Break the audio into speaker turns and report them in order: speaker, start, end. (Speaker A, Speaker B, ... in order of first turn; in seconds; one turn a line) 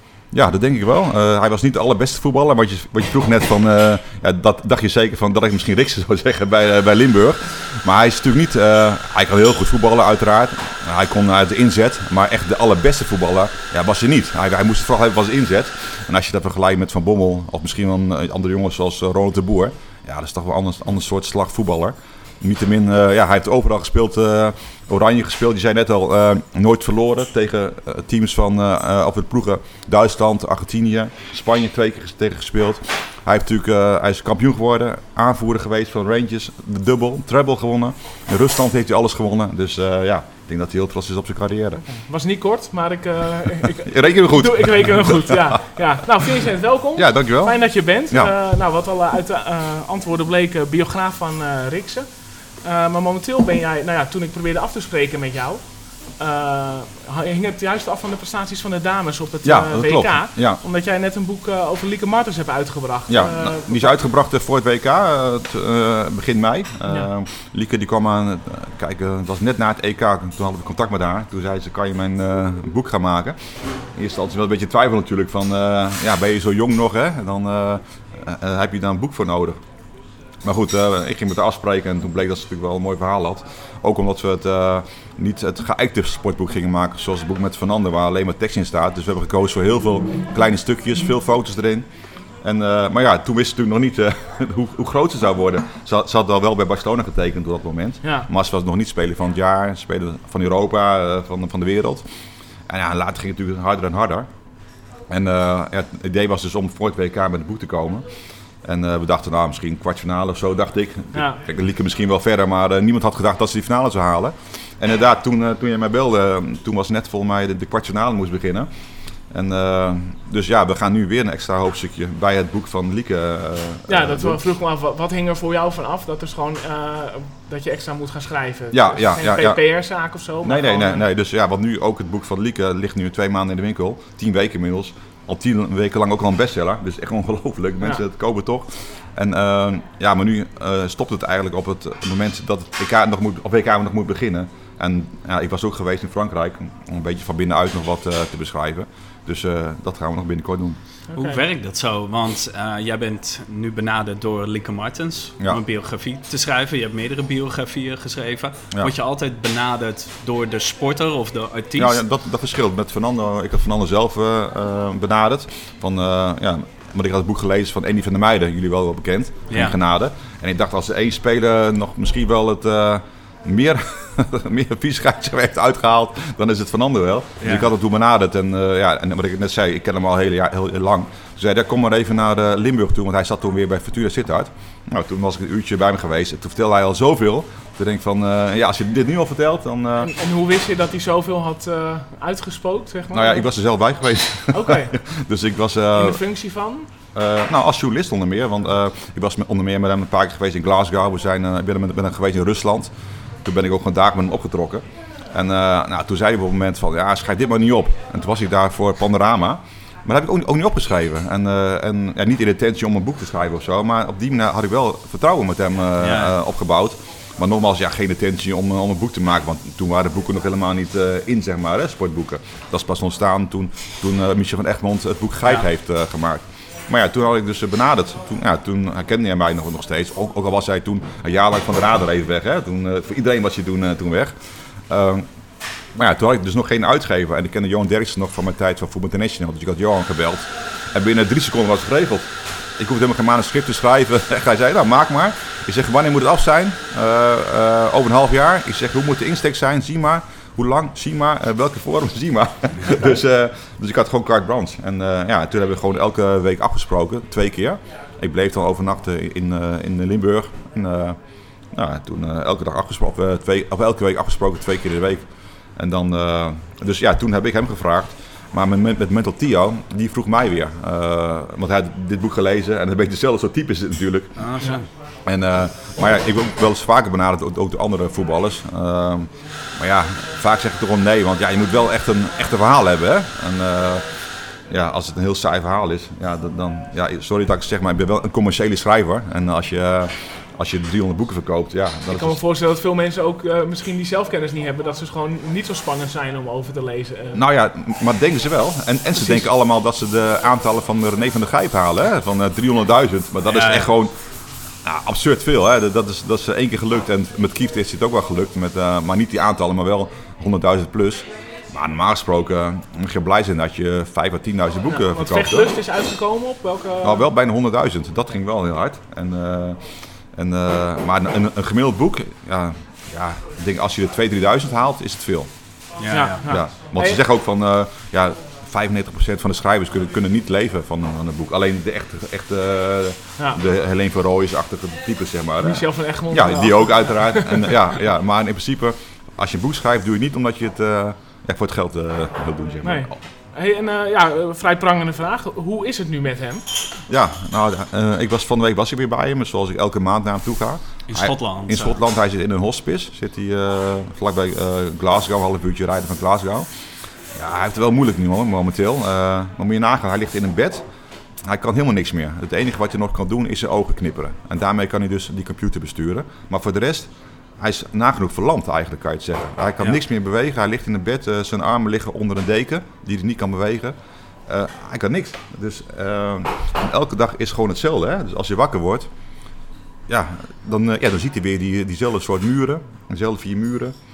Speaker A: 0.3-41.8
Speaker B: 42.0-52.1
Speaker A: 43.8-45.6
Speaker A: 47.0-47.6
Speaker B: 52.6-55.6
Speaker B: 56.2-63.9
Speaker A: 59.4-60.6
Speaker A: 63.1-79.6
Speaker A: 80.4-91.8
Speaker A: 92.4-102.0
Speaker A: 102.7-104.3
Speaker A: 105.1-108.1
Speaker A: 108.6-118.7
Speaker B: 111.1-111.4
Speaker A: 119.3-124.4
Speaker B: 123.9-131.0
Speaker A: 128.7-129.6
Speaker A: 130.4-150.8
Speaker B: 151.1-151.4
Speaker C: 151.1-162.0
Speaker A: 161.8-190.1
Speaker C: 169.5-169.8
Speaker C: 177.4-177.7
Speaker B: 190.0-193.5
Speaker A: 193.1-196.2
Speaker B: 194.5-195.0
Speaker B: 195.9-196.9
Speaker A: 197.1-202.9
Speaker A: 203.4-235.3
Speaker C: 216.0-216.3
Speaker A: 235.9-261.2
Speaker A: 261.7-274.4
Speaker C: 274.4-274.9
Speaker A: 275.2-292.4
Speaker B: 292.1-297.4
Speaker A: 297.3-304.1
Speaker B: 299.2-299.4
Speaker C: 303.5-303.9
Speaker A: 304.8-315.8
Speaker B: 314.9-317.2
Speaker A: 317.0-325.5
Speaker C: 326.0-326.4
Speaker B: 326.1-327.2
Speaker A: 326.4-343.1
Speaker B: 335.6-337.8
Speaker B: 342.8-346.6
Speaker A: 347.1-356.7
Speaker C: 351.1-352.0
Speaker A: 357.3-360.8
Speaker A: 361.4-373.9
Speaker A: 374.5-379.1
Speaker A: 380.1-383.9